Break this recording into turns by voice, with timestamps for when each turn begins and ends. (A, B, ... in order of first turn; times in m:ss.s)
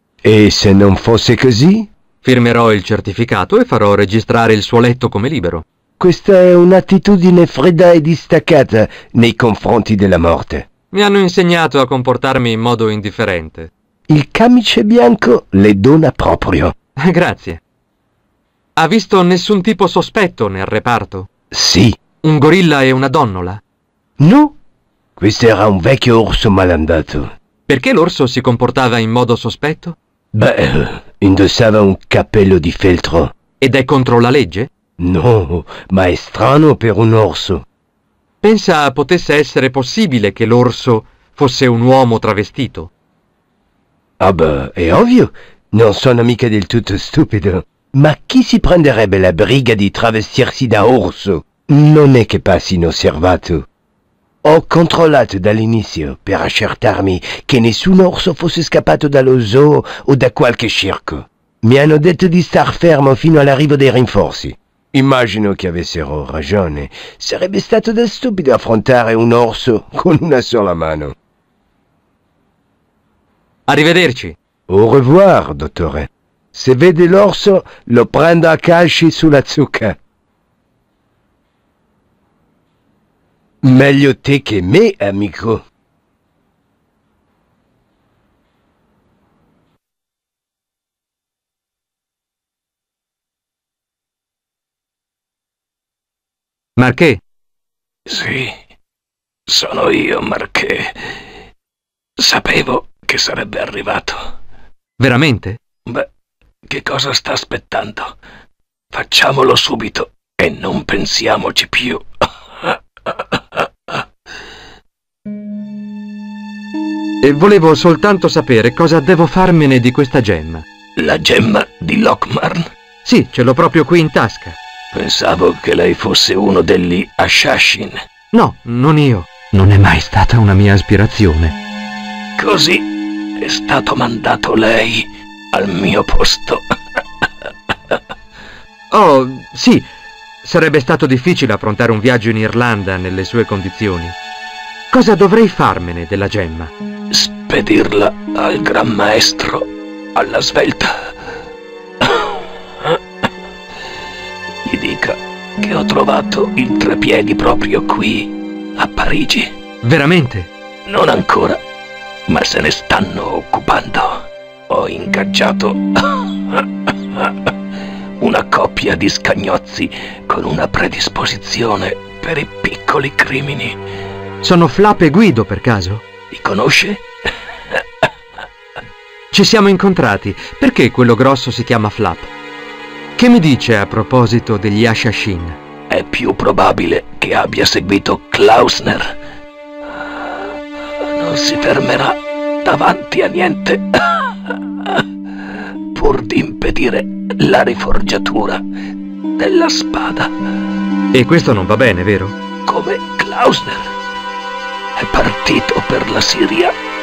0:00.2-0:01.9 A
0:02.2-0:05.6 B
0:06.0-0:10.7 A
0:10.9-0:13.7 B
0:14.1-0:16.7 A
0:17.0-0:17.6 B
0:18.8-0:21.3 B
0:21.5-0:22.0 A
0:22.2-0:23.6 B
0:24.2-0:24.6 A
0:25.2-0:27.3 A
0:27.7-0:30.0 B
0:30.3-0:33.3 A
0:33.6-0:34.7 B
0:35.0-0:37.6 A
0:38.4-0:42.9 B
0:44.2-0:53.6 A
0:54.4-1:11.1 A
1:13.7-1:14.4 B
1:14.7-1:20.0 A
1:23.6-1:25.6 A
1:36.8-1:37.2 B
1:38.1-1:38.6 C
1:39.5-1:41.0 C
1:42.2-1:44.2 C
1:45.0-1:45.6 B
1:46.7-1:48.2 C
1:48.9-1:52.1 C
1:52.7-1:53.1 C
1:57.2-2:00.6 B
2:01.0-2:02.7 C
2:03.0-2:04.6 B
2:04.9-2:08.0 C
2:08.3-2:11.6 B
2:12.4-2:12.9 C
2:13.4-2:16.6 C
2:18.9-2:19.9 B
2:20.4-2:24.2 B
2:24.9-2:26.7 B
2:27.1-2:30.9 C
2:32.0-2:32.3 C
2:34.6-2:39.5 C
2:39.8-2:40.5 B
2:40.9-2:41.6 C
2:42.3-2:46.6 C
2:48.2-2:53.8 C
2:54.4-2:56.0 B
2:56.3-2:57.0 C
2:59.3-3:02.3 B
3:03.2-3:05.6 B
3:05.9-3:09.1 C
3:11.2-3:15.0 C
3:15.9-3:18.6 C
3:19.4-3:20.3 C
3:21.1-3:22.4 B
3:22.7-3:23.8 C
3:25.0-3:26.7 C